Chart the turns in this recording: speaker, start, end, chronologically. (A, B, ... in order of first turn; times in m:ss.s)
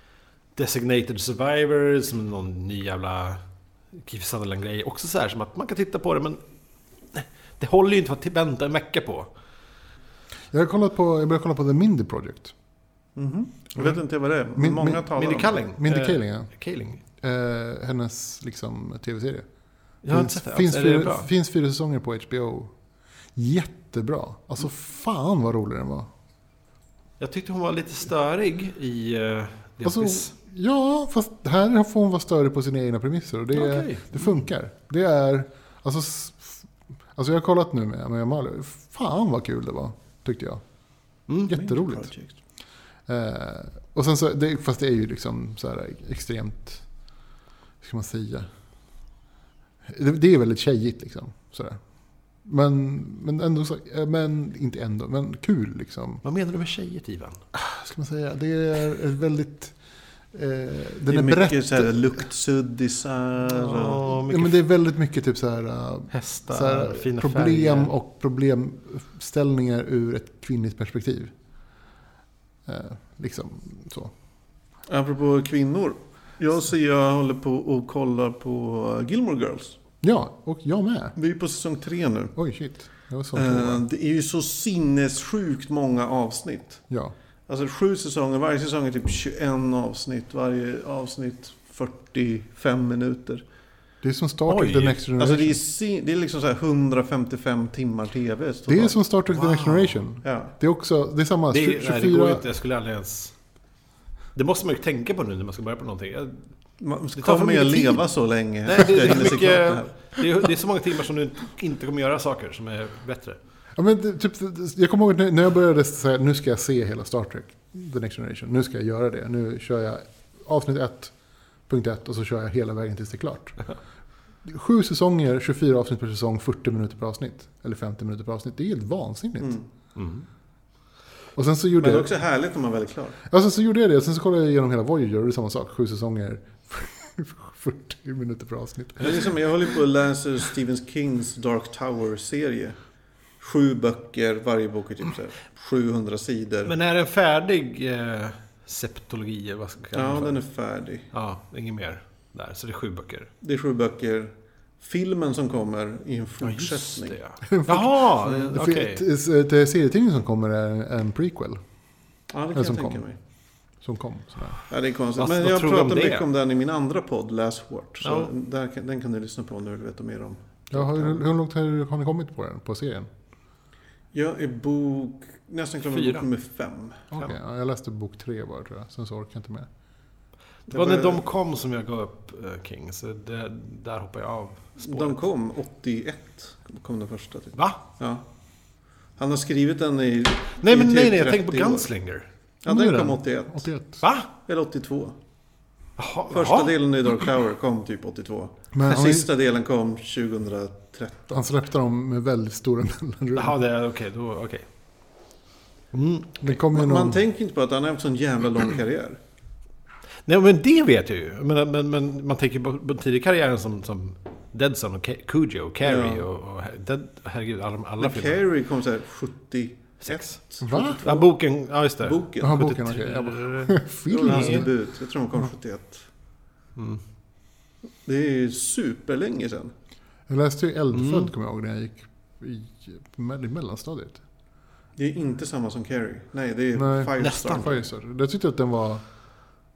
0:00.6-0:03.4 A
0:03.9-0:06.4 A
0:07.1-0:09.3 A
0:10.5-0:12.5 B
0:13.2-0:15.6 C
0:14.6-0:15.1 B
0:15.1-0:17.0 A
0:15.8-0:16.5 B
0:17.2-0:19.4 B
0:20.0-0:21.3 A
0:20.1-0:22.7 B
0:23.4-0:26.1 B
0:27.2-0:30.3 A
0:29.8-0:40.6 B
0:33.5-0:34.1 A
0:41.3-0:42.1 B
0:41.3-0:41.5 A
0:41.5-0:42.3 C
0:43.1-0:46.9 B
0:47.8-0:48.5 B
0:49.9-0:51.8 B
0:52.3-0:56.2 B
0:56.2-0:57.4 A
0:57.6-0:59.8 B
1:00.3-1:02.2 B
1:01.1-1:04.0 C
1:03.6-1:04.6 A
1:04.3-1:11.3 B
1:06.1-1:07.9 A
1:12.7-1:14.1 B
1:14.9-1:19.8 C
1:20.0-1:21.2 B
1:21.2-1:22.4 C
1:22.4-1:23.8 B
1:23.3-1:26.8 C
1:27.5-1:33.4 C
1:34.0-1:35.6 B
1:34.5-1:35.0 A
1:35.2-1:39.0 C
1:38.7-1:42.5 B
1:39.3-1:40.0 A
1:40.2-1:40.5 C
1:41.5-1:43.3 A
1:44.4-1:46.4 A
1:46.8-1:49.9 C
1:47.2-1:48.0 A
1:48.7-1:53.4 A
1:53.8-2:01.1 B
2:01.7-2:03.6 B
2:04.4-2:09.6 B
2:09.4-2:09.7 C
2:10.0-2:10.2 A
2:11.4-2:12.1 B
2:11.8-2:13.2 C
2:13.3-2:19.3 B
2:19.0-2:22.8 C
2:23.4-2:26.7 C
2:26.7-2:30.4 A
2:29.9-2:31.1 C
2:31.1-2:33.3 A
2:33.4-2:37.2 C
2:36.4-2:39.0 A
2:37.5-2:41.6 B
2:42.3-2:43.2 C
2:42.6-2:43.0 B
2:43.8-2:44.6 B
2:44.7-2:51.2 C
2:45.2-2:46.3 A
2:48.0-2:48.3 A
2:50.7-2:53.1 B
2:54.1-2:57.0 C
2:55.9-2:56.3 A
2:57.1-2:59.7 B
3:00.7-3:01.3 C
3:00.7-3:05.2 A
3:04.8-3:08.2 C
3:09.2-3:11.9 C
3:10.6-3:12.3 A
3:12.6-3:13.7 C
3:12.7-3:14.0 B
3:14.0-3:14.3 A
3:14.3-3:15.2 C
3:16.0-3:16.8 A
3:16.3-3:21.4 C
3:18.7-3:19.3 B
3:21.3-3:23.6 B
3:23.4-3:24.6 A
3:25.9-3:26.6 A
3:26.4-3:27.2 B
3:26.7-3:29.2 C
3:30.3-3:38.4 A
3:35.8-3:36.2 C
3:38.0-3:41.3 C
3:40.0-3:44.7 A
3:40.6-3:41.0 B
3:42.0-3:42.7 C
3:42.4-3:44.7 B
3:44.1-3:46.1 C
3:46.8-3:47.0 A
3:48.0-3:49.7 C
3:50.3-3:54.2 B
3:50.9-3:51.3 A
3:55.0-3:57.8 C
3:56.8-3:59.0 B
3:57.2-3:57.7 A